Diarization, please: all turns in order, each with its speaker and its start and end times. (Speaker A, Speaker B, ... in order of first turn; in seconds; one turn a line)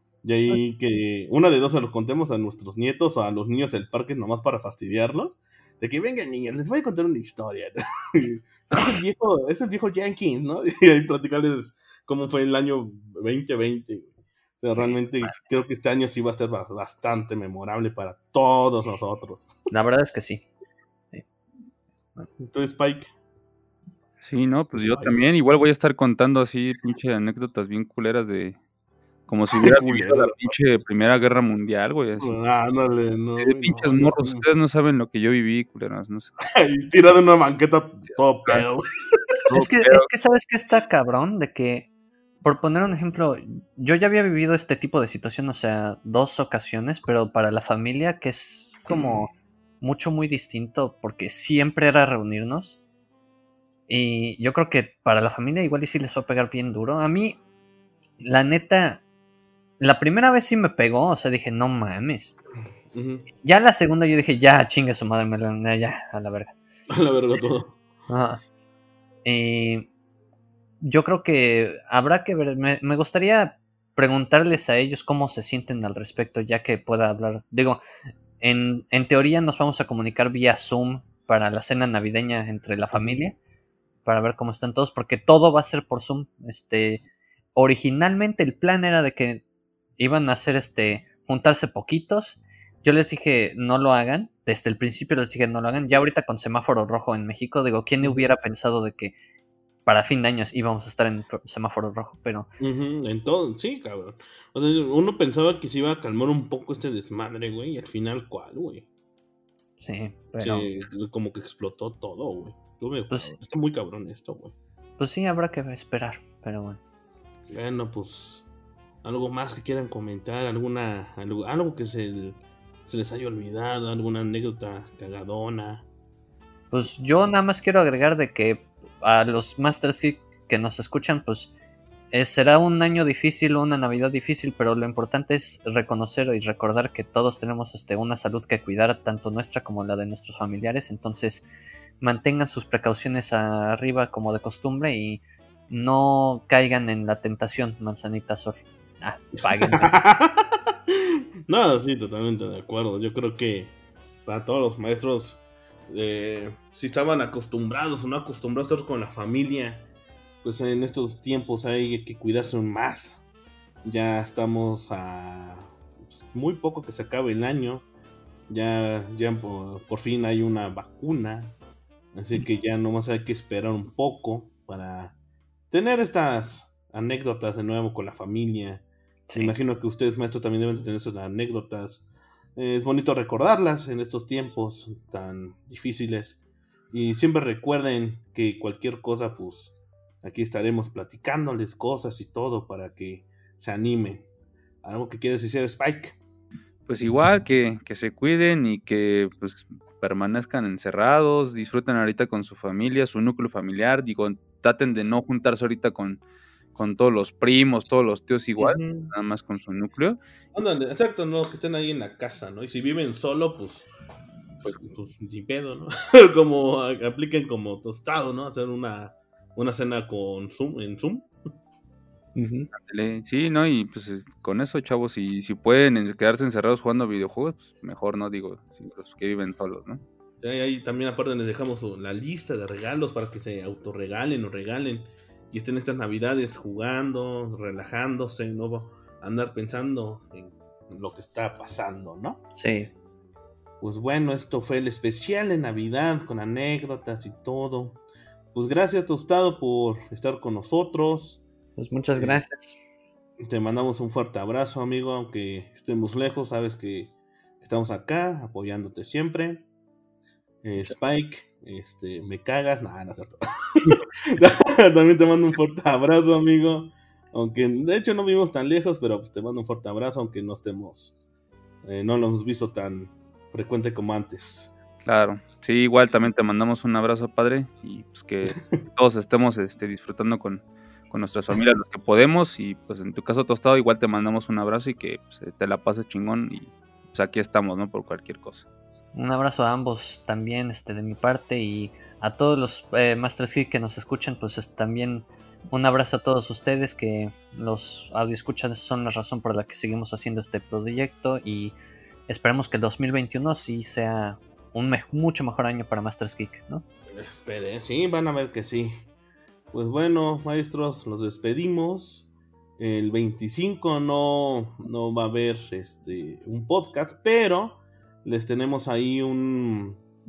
Speaker A: 0.2-19.5
Speaker B: 14.8-15.3
Speaker B: 19.7-20.4
Speaker A: 22.4-23.1
Speaker C: 24.2-28.6
Speaker A: 24.7-25.2
Speaker C: 29.3-32.4
Speaker A: 29.5-30.6
Speaker A: 32.2-34.5
Speaker C: 33.4-36.3
Speaker A: 36.6-38.8
Speaker C: 39.5-40.1
Speaker B: 39.5-41.9
Speaker B: 42.4-52.8
Speaker A: 48.9-49.2
Speaker B: 53.9-57.4
Speaker B: 58.2-59.0
Speaker B: 59.8-62.3
Speaker A: 62.9-63.3
Speaker B: 63.4-66.5
Speaker A: 66.9-67.8
Speaker B: 68.1-68.4
Speaker B: 69.2-69.9
Speaker B: 70.8-77.8
Speaker B: 78.4-83.3
Speaker A: 82.9-83.2
Speaker B: 84.0-87.0
Speaker B: 87.5-89.4
Speaker B: 90.0-99.1
Speaker A: 98.0-98.3
Speaker B: 99.8-102.5
Speaker A: 102.6-108.9
Speaker B: 109.8-110.7
Speaker A: 110.4-114.5
Speaker B: 113.1-113.4
Speaker B: 115.0-116.8
Speaker A: 117.5-118.5
Speaker A: 119.0-125.9
Speaker B: 126.7-131.5
Speaker B: 132.1-141.5
Speaker B: 142.0-149.9
Speaker A: 149.6-150.9
Speaker A: 151.5-153.7
Speaker A: 154.2-159.8
Speaker A: 160.4-163.2
Speaker A: 163.8-167.8
Speaker A: 168.5-171.6
Speaker A: 172.1-175.1
Speaker A: 175.7-178.8
Speaker B: 179.3-179.5
Speaker A: 179.3-182.0
Speaker A: 182.6-194.3
Speaker A: 194.8-196.2
Speaker C: 196.9-206.2
Speaker C: 206.7-210.2
Speaker A: 208.6-209.1
Speaker A: 210.5-213.9
Speaker A: 214.6-221.3
Speaker B: 222.3-222.7
Speaker C: 222.7-230.0
Speaker A: 230.4-242.4
Speaker B: 242.6-242.9
Speaker A: 243.8-248.0
Speaker A: 248.5-251.4
Speaker B: 251.8-252.8
Speaker A: 252.1-252.4
Speaker A: 253.4-259.6
Speaker A: 260.6-271.1
Speaker A: 271.8-274.8
Speaker C: 275.0-288.6
Speaker A: 278.5-278.9
Speaker B: 289.1-301.7
Speaker B: 302.3-306.8
Speaker A: 307.1-309.0
Speaker A: 309.7-320.0